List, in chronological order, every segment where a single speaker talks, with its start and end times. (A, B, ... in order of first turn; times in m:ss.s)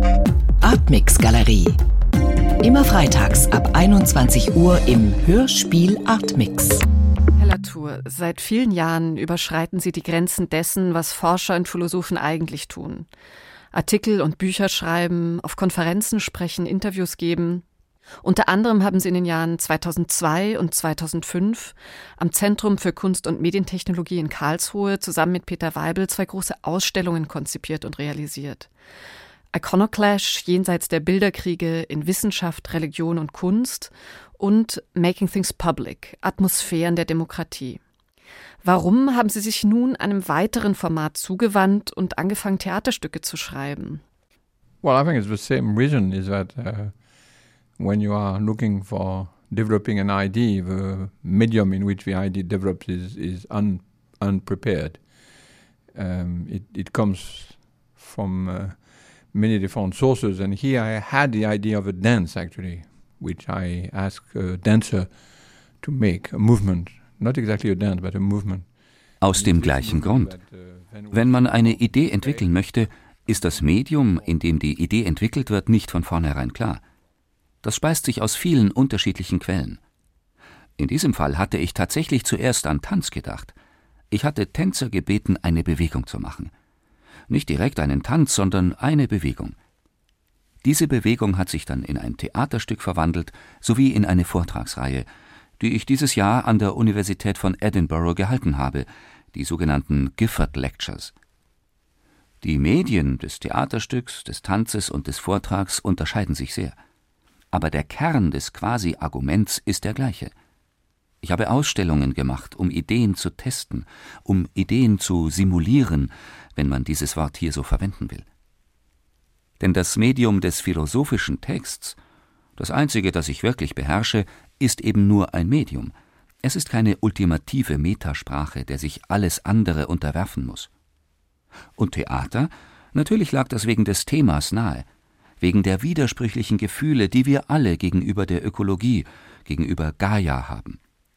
0:00.6-0:01.8 A
0:02.6-0:06.8 A
0:07.4-0:13.1 B
0:13.7-0:17.6 B
0:18.2-0:28.7 B
0:29.5-0:37.8 B
0:38.6-0:44.0 B
0:44.8-0:46.9 C
0:47.8-0:55.0 C
0:55.9-0:58.8 C
0:59.3-1:05.1 C
1:05.8-1:08.6 C
1:09.2-1:10.3 D
1:09.3-1:12.5 C
1:11.1-1:16.8 D
1:13.2-1:14.4 C
1:17.6-1:19.8 D
1:20.8-1:23.5 D
1:24.1-1:26.5 D
1:27.3-1:29.6 D
1:30.6-1:35.0 D
1:35.6-1:41.1 D
1:42.4-1:46.8 D
1:47.5-1:50.3 D
1:51.2-1:58.2 D
1:59.6-2:02.0 D
2:02.6-2:10.7 D
2:11.8-2:14.9 D
2:15.4-2:20.8 D